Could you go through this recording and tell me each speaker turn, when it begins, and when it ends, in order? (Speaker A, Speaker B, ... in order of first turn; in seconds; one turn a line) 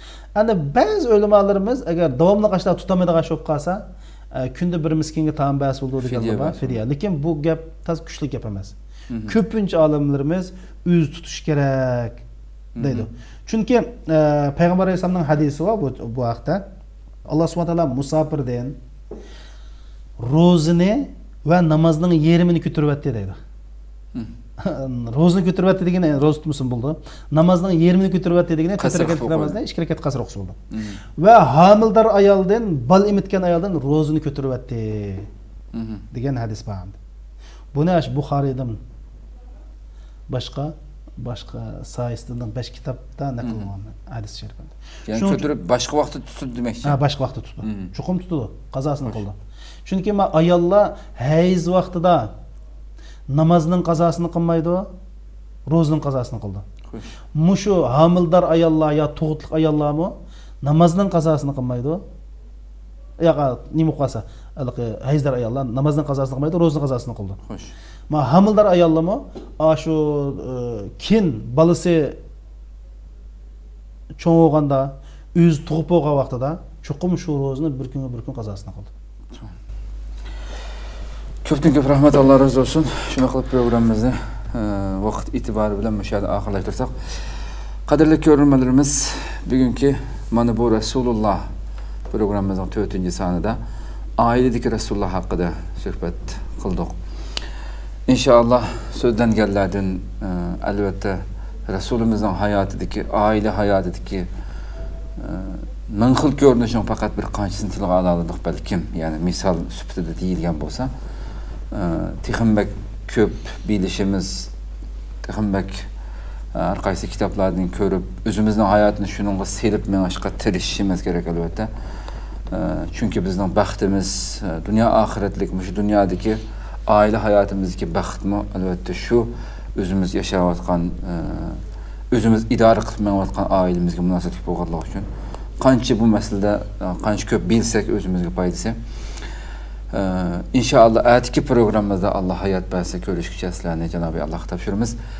Speaker A: 0.4-12.2
Speaker B: 6.0-6.8
Speaker B: 9.1-9.4
Speaker B: 12.8-13.1
Speaker A: 12.8-16.6
Speaker A: 17.3-18.8
Speaker A: 20.2-23.4
Speaker A: 24.6-30.6
Speaker B: 28.8-29.6
Speaker B: 30.7-31.0
Speaker A: 31.2-35.3
Speaker B: 35.7-36.0
Speaker A: 36.1-37.0
Speaker A: 37.7-38.8
Speaker A: 40.3-45.5
Speaker B: 43.4-43.7
Speaker B: 45.1-47.0
Speaker A: 46.9-52.3
Speaker B: 47.6-47.9
Speaker A: 53.3-54.9
Speaker A: 55.7-56.7
Speaker A: 57.4-62.0
Speaker A: 63.2-67.4
Speaker B: 67.5-67.7
Speaker A: 68.1-72.2
Speaker A: 74.2-78.9
Speaker B: 81.4-87.3
Speaker B: 87.9-91.5
Speaker B: 92.1-93.6
Speaker B: 94.2-97.0
Speaker B: 98.1-104.3
Speaker B: 105.2-110.9
Speaker B: 111.7-114.5
Speaker B: 115.2-115.9
Speaker B: 116.5-121.7
Speaker B: 122.5-135.1
Speaker B: 135.6-138.8
Speaker B: 139.9-145.0